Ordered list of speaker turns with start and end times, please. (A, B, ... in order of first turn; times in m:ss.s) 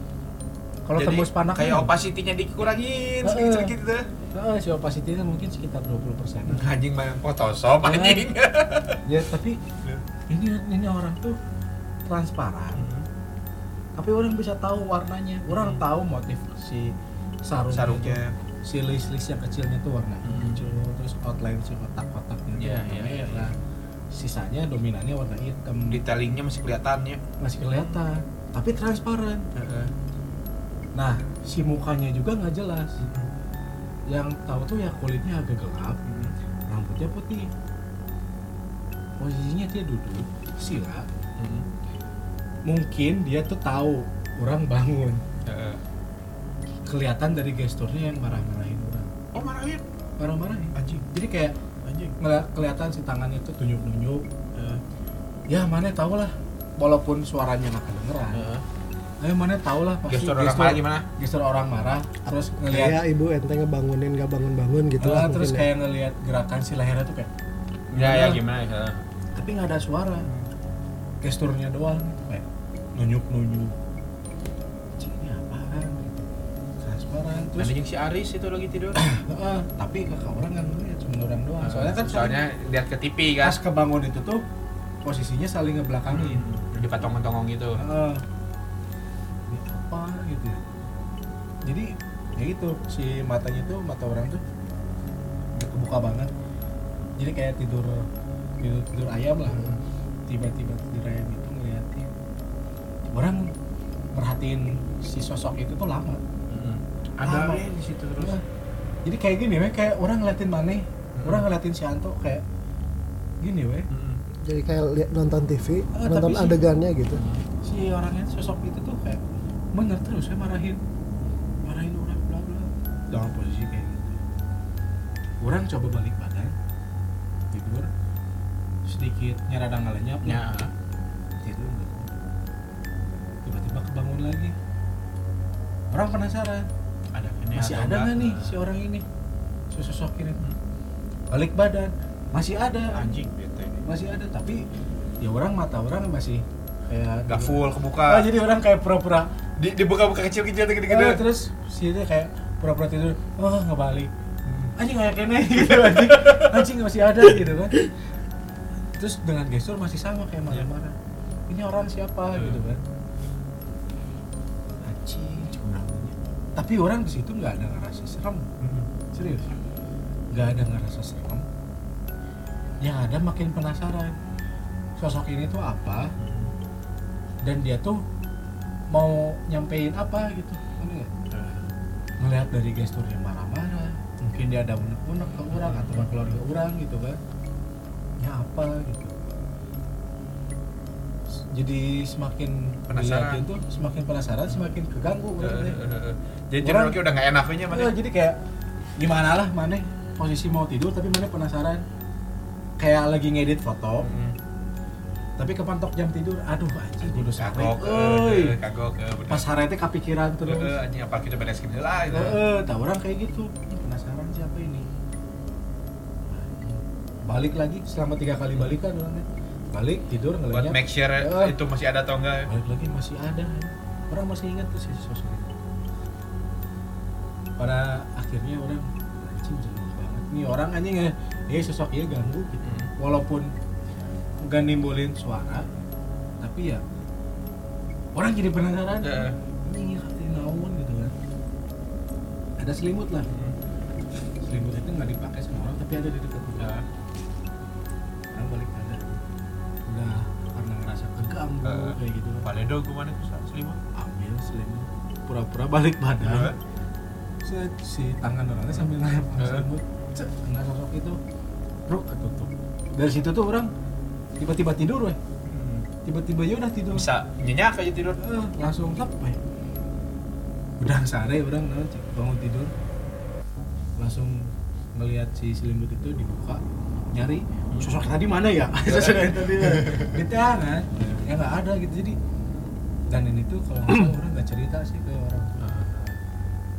0:00.9-0:01.9 A
0:01.0-0:04.1 B
0:03.2-0:03.7 A
0:04.3-0:06.7 A
0:06.5-0:09.0 B
0:07.8-0:08.3 A
0:09.0-0:09.6 A
0:10.3-0:11.4 A
0:12.0-0:12.9 A
0:12.8-0:13.1 B
0:14.0-0:16.9 A
0:15.5-0:15.8 B
0:17.4-0:23.5 A
0:17.7-0:18.4 B
0:20.2-0:20.6 B
0:22.6-0:23.6 B
0:24.1-0:26.0 A
0:25.9-0:27.2 B
0:27.4-0:29.4 A
0:27.8-0:28.0 B
0:29.5-0:29.9 B
0:31.0-0:33.0 A
0:33.0-0:33.3 B
0:34.1-0:36.0 A
0:36.0-0:36.3 B
0:36.7-0:37.5 A
0:39.2-0:41.1 A
0:41.4-0:41.7 B
0:42.7-0:45.2 A
0:45.4-0:45.8 B
0:46.9-0:49.1 A
0:49.3-0:49.8 B
0:50.2-0:51.6 A
0:50.7-0:51.1 B
0:51.8-0:52.2 B
0:52.2-0:54.2 A
0:54.5-0:54.8 B
0:55.5-0:58.5 A
0:58.3-0:58.6 B
0:59.2-1:03.0 A
1:00.1-1:01.0 B
1:02.7-1:05.7 C
1:05.0-1:07.3 A
1:07.9-1:09.0 B
1:07.9-1:08.4 A
1:09.4-1:10.3 A
1:11.2-1:13.8 A
1:15.0-1:16.2 A
1:16.8-1:17.7 A
1:17.6-1:19.0 B
1:18.9-1:22.4 A
1:21.6-1:23.6 B
1:23.4-1:24.4 A
1:25.0-1:26.4 A
1:26.1-1:27.8 B
1:27.8-1:28.2 A
1:29.5-1:30.8 A
1:31.6-1:34.4 A
1:35.5-1:36.3 A
1:37.2-1:38.1 A
1:38.6-1:42.1 A
1:43.1-1:43.5 A
1:44.1-1:46.2 A
1:46.5-1:48.3 B
1:47.2-1:48.4 A
1:49.0-1:52.4 A
1:51.1-1:51.4 B
1:53.4-1:53.9 A
1:53.9-1:54.2 B
1:54.4-1:57.2 C
1:55.9-1:56.6 A
1:57.1-1:57.4 B
1:57.6-1:59.2 A
1:59.7-2:00.8 A
2:01.6-2:04.2 A
2:03.3-2:03.5 B
2:05.4-2:06.5 A
2:07.5-2:07.9 A
2:08.9-2:10.4 A
2:10.2-2:10.7 B
2:11.4-2:12.2 A
2:13.4-2:14.6 A
2:15.9-2:16.7 A
2:17.1-2:18.6 B
2:17.5-2:19.0 A
2:19.7-2:20.4 A
2:21.3-2:23.1 A
2:22.9-2:23.8 B
2:23.8-2:24.6 A
2:25.2-2:29.3 A
2:27.3-2:28.3 B
2:29.6-2:31.2 B
2:30.9-2:34.1 A
2:34.4-2:34.7 B
2:34.8-2:37.8 A
2:35.6-2:36.6 B
2:38.9-2:41.0 A
2:41.5-2:42.8 A
2:42.3-2:42.6 B
2:44.8-2:48.5 A
2:48.6-2:48.9 B
2:49.1-2:49.5 A
2:50.3-2:51.4 A
2:52.8-2:54.1 A
2:55.0-2:56.1 A
2:56.2-2:56.5 B
2:57.4-2:58.0 A
2:58.9-3:01.1 A
3:01.3-3:01.7 B
3:02.2-3:07.2 A
3:05.5-3:06.3 B
3:08.2-3:09.2 A
3:11.3-3:15.8 A
3:12.9-3:13.5 B
3:15.4-3:17.9 B
3:16.6-3:17.0 A
3:17.7-3:18.4 A
3:19.0-3:21.8 A
3:22.8-3:24.1 A
3:24.0-3:24.4 B
3:25.4-3:28.5 A
3:27.0-3:29.4 B
3:29.3-3:30.7 A
3:30.5-3:32.4 B
3:32.1-3:34.9 A
3:36.3-3:41.5 A
3:40.5-3:42.5 B
3:42.5-3:45.6 A
3:47.6-3:53.5 A
3:52.6-3:52.9 B
3:54.4-3:55.7 A
3:56.4-3:56.8 A
3:58.1-4:01.1 A
3:59.0-3:59.4 B
4:02.6-4:03.3 A
4:03.3-4:03.6 B
4:04.4-4:06.8 A
4:06.6-4:06.8 B
4:08.3-4:09.2 A
4:09.8-4:12.5 A
4:11.6-4:13.8 B
4:13.9-4:16.5 A
4:16.2-4:16.6 B
4:17.4-4:21.2 A
4:18.7-4:19.7 B
4:21.9-4:23.7 A
4:24.4-4:25.2 A
4:25.4-4:25.9 B
4:26.0-4:27.1 A
4:26.9-4:28.2 B
4:28.2-4:29.4 A
4:30.8-4:32.7 A
4:34.0-4:42.2 A
4:38.8-4:40.2 B
4:43.1-4:45.9 A
4:45.6-4:46.2 B